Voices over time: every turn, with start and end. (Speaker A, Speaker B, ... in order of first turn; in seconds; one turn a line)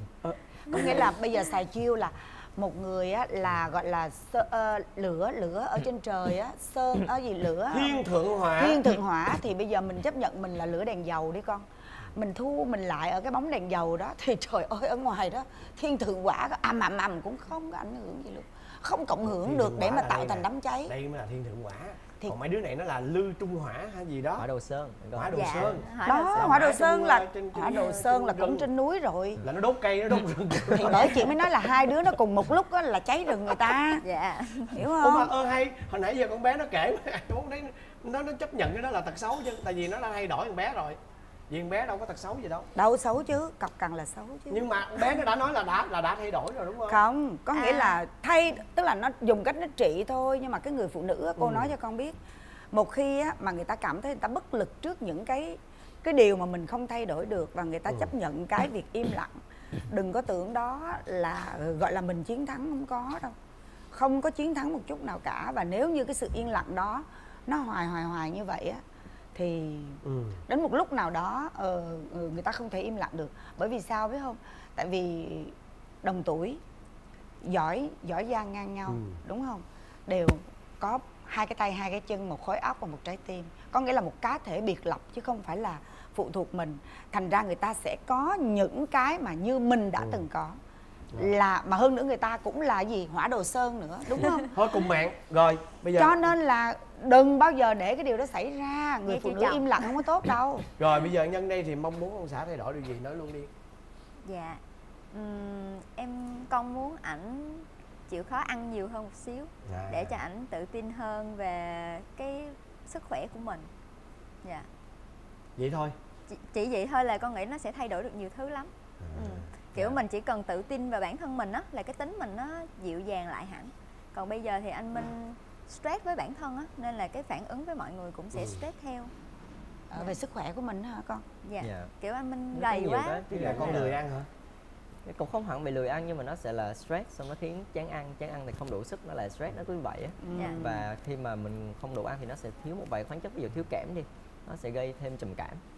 Speaker A: 0.2-1.1
Speaker B: 0.7-8.0
Speaker A: 7.7-8.8
Speaker B: 8.6-20.9
Speaker A: 19.2-24.4
Speaker C: 24.4-25.7
Speaker A: 25.1-28.7
Speaker D: 25.3-26.7
Speaker B: 26.0-29.4
Speaker A: 29.4-31.3
Speaker B: 30.7-34.0
Speaker D: 34.0-34.7
Speaker B: 34.7-35.3
Speaker A: 35.0-41.0
Speaker A: 41.5-42.7
Speaker B: 42.8-45.1
Speaker A: 44.5-47.0
Speaker B: 46.9-52.1
Speaker D: 47.5-48.0
Speaker A: 51.4-51.7
Speaker B: 52.7-59.3
Speaker B: 59.9-63.3
Speaker B: 63.9-68.8
Speaker B: 69.3-76.6
Speaker A: 70.0-70.4
Speaker B: 77.4-90.5
Speaker A: 78.9-79.2
Speaker B: 91.2-94.5
Speaker A: 94.5-96.2
Speaker B: 96.0-100.7
Speaker D: 99.1-99.7
Speaker A: 100.8-103.5
Speaker D: 104.2-104.6
Speaker D: 105.1-113.7
Speaker A: 109.7-110.2
Speaker A: 115.6-115.9
Speaker D: 116.3-129.1
Speaker A: 119.0-120.0
Speaker B: 129.9-131.2
Speaker D: 131.4-133.8
Speaker C: 131.6-131.9
Speaker C: 132.5-134.0
Speaker A: 133.3-134.3
Speaker C: 135.1-145.6
Speaker B: 140.2-140.9
Speaker D: 140.3-140.6